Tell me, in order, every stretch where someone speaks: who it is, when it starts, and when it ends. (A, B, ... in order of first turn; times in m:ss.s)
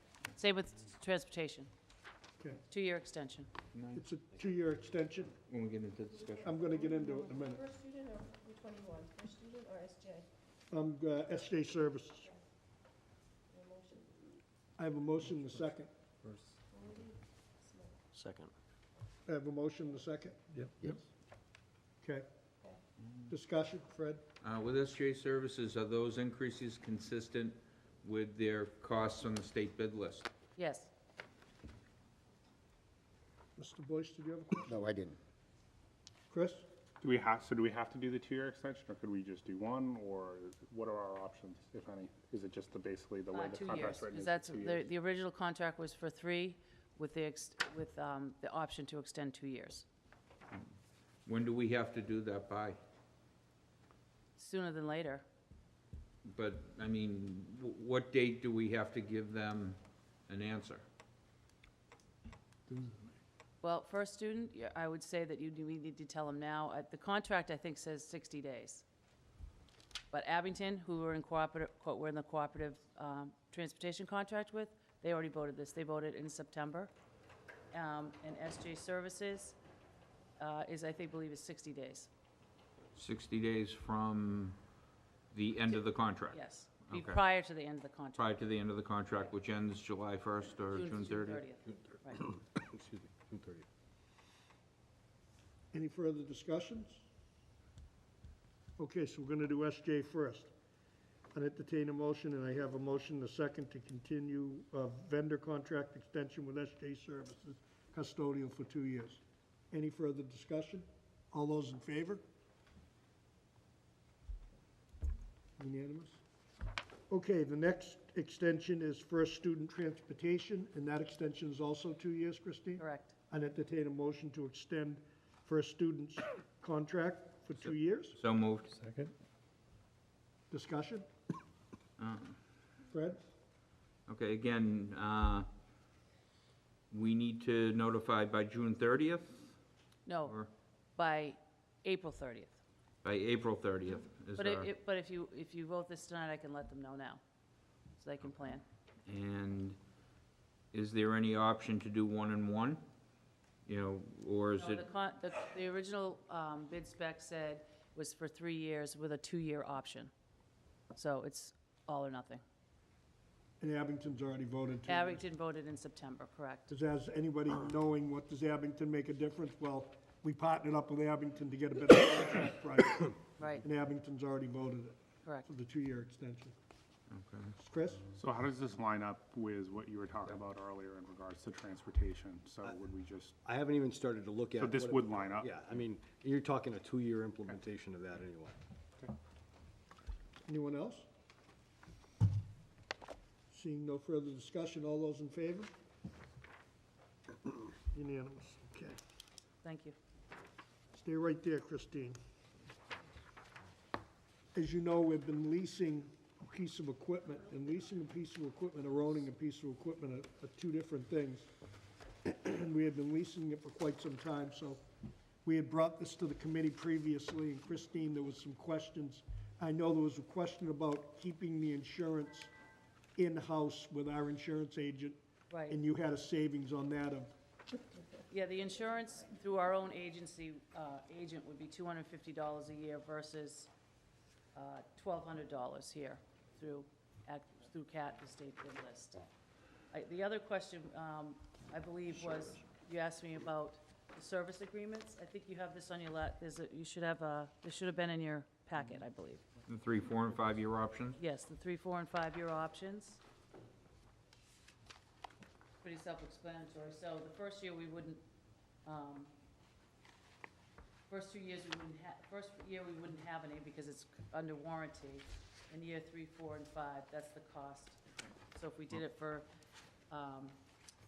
0:00.4-0:01.7 A
0:02.7-0:03.5 A
0:03.7-0:04.0 B
0:04.0-0:05.4 C
0:05.5-0:06.5 B
0:06.4-0:07.7 C
0:07.7-0:10.2 D
0:10.7-0:12.3 C
0:13.6-0:14.1 D
0:14.8-0:15.9 C
0:16.8-0:17.2 D
0:18.1-0:18.5 E
0:19.3-0:21.0 C
0:22.0-0:22.3 C
0:23.3-0:24.2 C
0:24.4-0:30.3 B
0:30.6-0:30.9 A
0:33.6-0:34.9 C
0:34.7-0:35.2 B
0:36.3-0:36.7 C
0:37.0-0:44.9 F
0:43.3-0:49.9 A
0:51.3-0:52.8 B
0:54.4-0:55.2 A
0:56.2-1:00.8 B
1:03.6-1:08.8 A
1:10.1-1:16.9 A
1:17.7-1:19.6 A
1:20.4-1:22.1 A
1:23.0-1:24.6 B
1:25.3-1:27.2 B
1:26.3-1:28.4 A
1:28.2-1:31.4 B
1:30.7-1:32.2 A
1:32.2-1:33.7 E
1:35.7-1:37.0 C
1:38.8-1:40.5 C
1:41.3-1:49.2 C
1:49.7-1:52.2 C
1:55.6-1:56.2 C
1:57.1-2:08.2 C
2:02.8-2:03.2 A
2:08.2-2:08.7 B
2:08.8-2:09.1 E
2:10.5-2:11.1 C
2:12.0-2:12.4 B
2:12.9-2:13.2 C
2:14.1-2:15.5 B
2:16.9-2:19.6 B
2:20.1-2:20.4 A
2:20.2-2:20.5 B
2:21.0-2:22.6 A
2:23.0-2:24.7 B
2:24.4-2:27.2 A
2:28.0-2:28.6 A
2:29.1-2:29.8 B
2:30.7-2:32.8 B
2:33.7-2:34.8 B
2:34.6-2:40.1 A
2:40.9-2:42.4 A
2:43.6-2:45.2 C
2:44.9-2:46.7 A
2:46.7-2:56.6 C
2:53.4-2:53.6 A
2:57.1-2:57.5 B
2:57.6-2:58.1 C
2:58.2-3:03.4 F
3:03.4-3:08.6 E
3:04.6-3:05.6 F
3:10.5-3:11.1 C
3:13.5-3:15.7 C
3:17.9-3:19.0 C
3:19.6-3:20.0 A
3:21.0-3:22.2 C
3:24.6-3:31.5 C
3:32.2-3:34.8 C
3:35.4-3:42.5 C
3:43.2-3:45.2 C
3:45.5-3:45.8 A
3:45.7-3:47.3 C
3:48.3-3:53.7 A
3:54.6-3:59.3 A
3:59.9-4:09.4 A
4:09.7-4:11.2 B
4:11.2-4:13.2 A
4:15.8-4:18.2 A
4:18.8-4:19.3 A
4:21.1-4:28.0 A
4:28.6-4:29.5 A
4:30.1-4:30.6 A